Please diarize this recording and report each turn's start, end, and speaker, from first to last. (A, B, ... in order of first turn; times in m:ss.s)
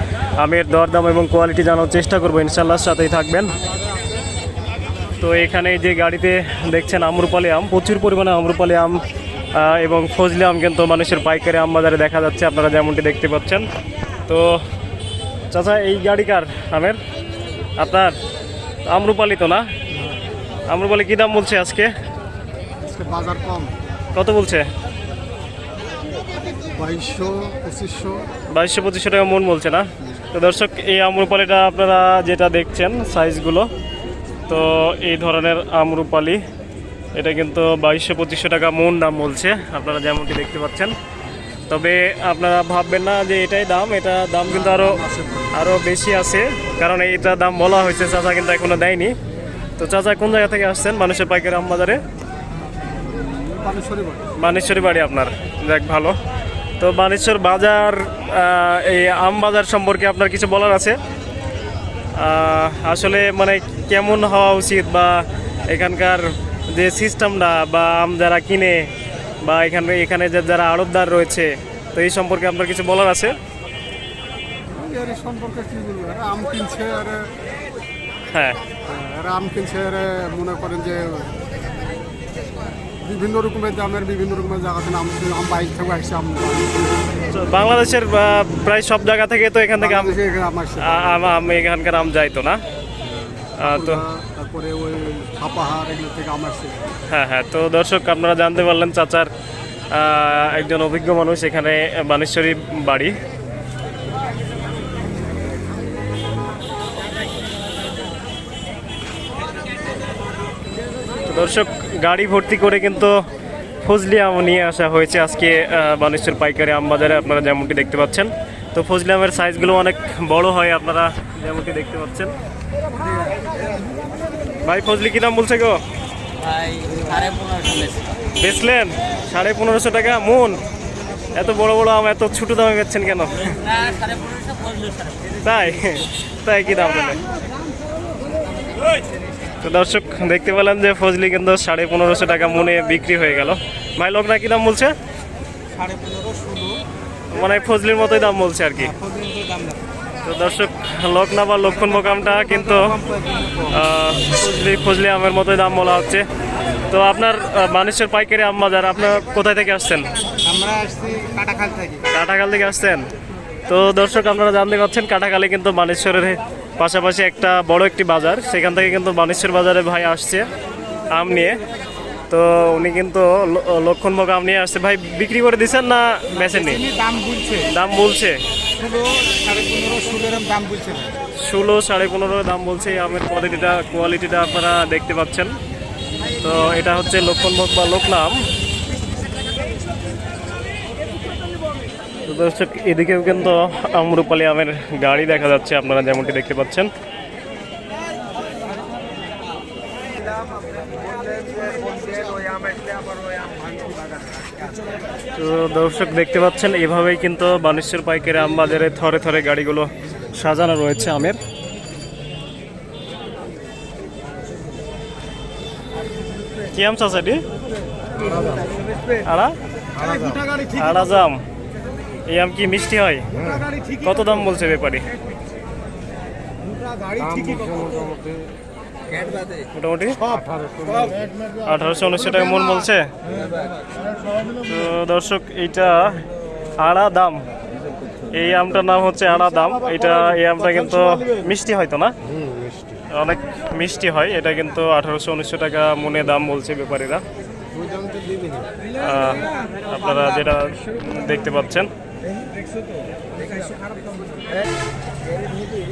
0:00.4-0:03.6 A
0:05.2-0:09.0 A
0:09.5-0:13.7 A
0:14.3-0:14.6 A
0:15.5-0:17.0 A
0:17.8-0:18.2 A
0:18.9-0:19.7 A
0:20.7-0:21.9 A
0:22.8-0:23.7 B
0:24.2-0:24.7 A
0:26.8-0:28.3 B
0:28.5-0:33.7 A
0:34.5-0:36.4 A
0:37.2-0:41.0 A
0:41.7-0:45.0 A
0:44.5-0:45.7 B
0:45.5-0:49.2 A
0:49.8-0:52.0 A
0:53.1-0:54.3 B
0:54.4-0:56.2 A
0:56.8-1:01.0 A
1:02.2-1:08.9 A
1:09.4-1:13.4 A
1:14.7-1:17.3 B
1:18.3-1:18.6 A
1:18.9-1:21.4 B
1:23.0-1:27.1 B
1:27.3-1:30.2 A
1:29.8-1:31.4 B
1:30.8-1:32.6 A
1:33.0-1:36.8 B
1:33.6-1:34.0 A
1:37.1-1:39.3 A
1:39.9-1:43.1 A
1:51.3-1:53.2 A
1:53.8-2:02.3 A
2:04.6-2:05.8 A
2:06.4-2:08.1 C
2:08.4-2:10.6 A
2:11.3-2:13.7 A
2:13.8-2:15.2 C
2:15.4-2:17.2 A
2:19.6-2:25.0 A
2:25.7-2:26.8 C
2:27.3-2:29.0 A
2:28.8-2:29.8 C
2:30.2-2:33.0 A
2:31.8-2:33.8 C
2:33.7-2:36.3 A
2:36.9-2:40.1 A
2:40.4-2:42.1 C
2:42.1-2:43.1 A
2:43.7-2:50.5 A
2:51.1-2:51.6 A
2:52.3-2:56.8 A
2:56.4-2:57.7 C
2:57.6-2:58.4 A
2:58.8-3:01.2 C
3:01.4-3:05.6 A
3:06.4-3:08.4 A
3:12.3-3:16.9 A
3:20.1-3:24.8 C
3:25.4-3:31.4 A
3:36.7-3:37.4 A
3:38.2-3:38.8 C
3:39.2-3:39.6 A
3:40.0-3:40.8 C
3:40.7-3:41.4 A
3:42.3-3:43.4 A
3:43.4-3:43.8 C
3:44.0-3:45.1 A
3:46.7-3:48.3 C
3:49.1-3:49.6 C
3:49.7-3:50.4 A
3:50.8-3:51.2 C
3:51.6-3:53.1 A
3:54.6-3:56.2 A
3:56.8-3:57.4 A
3:58.3-4:02.2 A
4:03.1-4:07.2 A
4:07.9-4:08.6 C
4:08.9-4:11.9 A
4:13.4-4:14.6 C